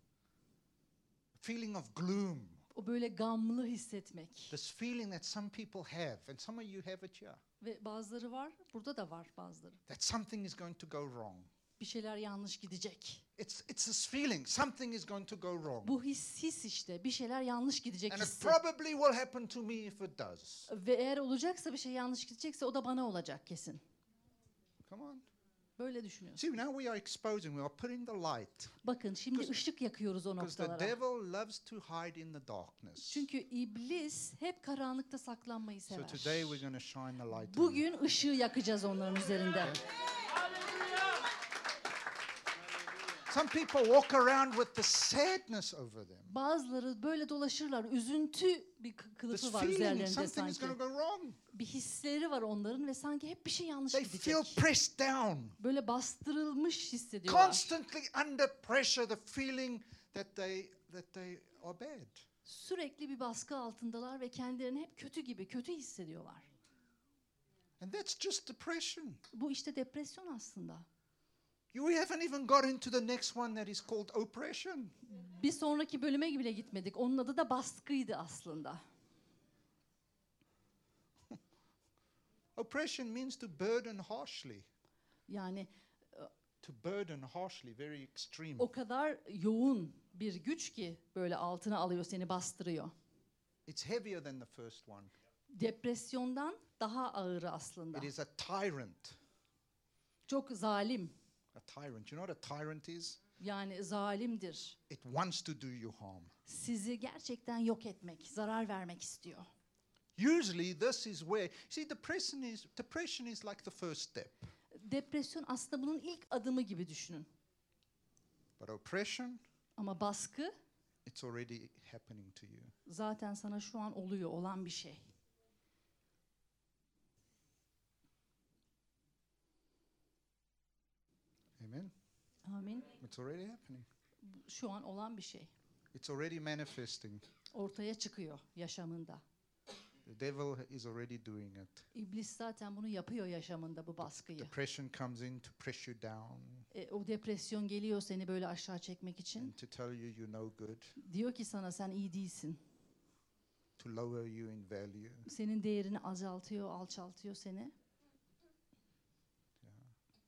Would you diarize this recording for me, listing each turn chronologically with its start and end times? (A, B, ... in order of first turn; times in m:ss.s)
0:01.4-0:02.6 A
0:02.7-0:04.6 B
0:04.5-0:07.4 A
0:07.6-0:09.8 B
0:09.9-0:11.5 A
0:11.8-0:13.2 B
0:13.4-0:16.0 A
0:15.8-0:18.6 B
0:18.1-0:20.7 A
0:20.7-0:23.8 B
0:24.8-0:25.2 A
0:25.8-0:26.5 B
0:26.4-0:28.7 A
0:28.8-0:30.9 B
0:30.4-0:33.3 A
0:33.0-0:36.6 B
0:35.9-0:37.8 A
0:37.3-0:39.8 B
0:43.3-0:46.3 A
0:46.3-0:50.8 B
0:49.3-0:51.4 A
0:51.5-0:54.6 B
0:53.9-0:55.6 A
0:55.6-0:57.7 B
0:57.3-1:02.3 A
1:02.4-1:06.5 B
1:07.8-1:09.2 A
1:09.3-1:10.9 B
1:11.7-1:14.9 A
1:15.1-1:18.8 B
1:22.6-1:24.7 A
1:25.3-1:26.3 B
1:26.6-1:28.7 A
1:28.6-1:32.9 B
1:33.6-1:35.1 A
1:35.5-1:38.1 B
1:37.9-1:39.2 A
1:40.3-1:41.1 B
1:41.5-1:43.2 A
1:43.4-1:44.8 B
1:44.9-1:46.3 A
1:46.4-1:49.5 B
1:50.2-1:54.5 A
1:54.7-1:57.3 B
1:58.6-1:59.4 A
1:59.8-2:00.5 B
2:01.0-2:02.7 A
2:02.9-2:05.0 B
2:11.6-2:11.9 A
2:12.5-2:12.9 B
2:13.0-2:13.9 A
2:14.2-2:15.5 B
2:15.9-2:17.2 A
2:17.5-2:19.2 B
2:20.0-2:21.9 A
2:21.9-2:24.5 B
2:24.0-2:26.7 A
2:26.7-2:29.5 B
2:29.4-2:30.9 A
2:31.0-2:32.6 B
2:33.8-2:35.3 A
2:35.3-2:37.7 B
2:39.6-2:39.9 A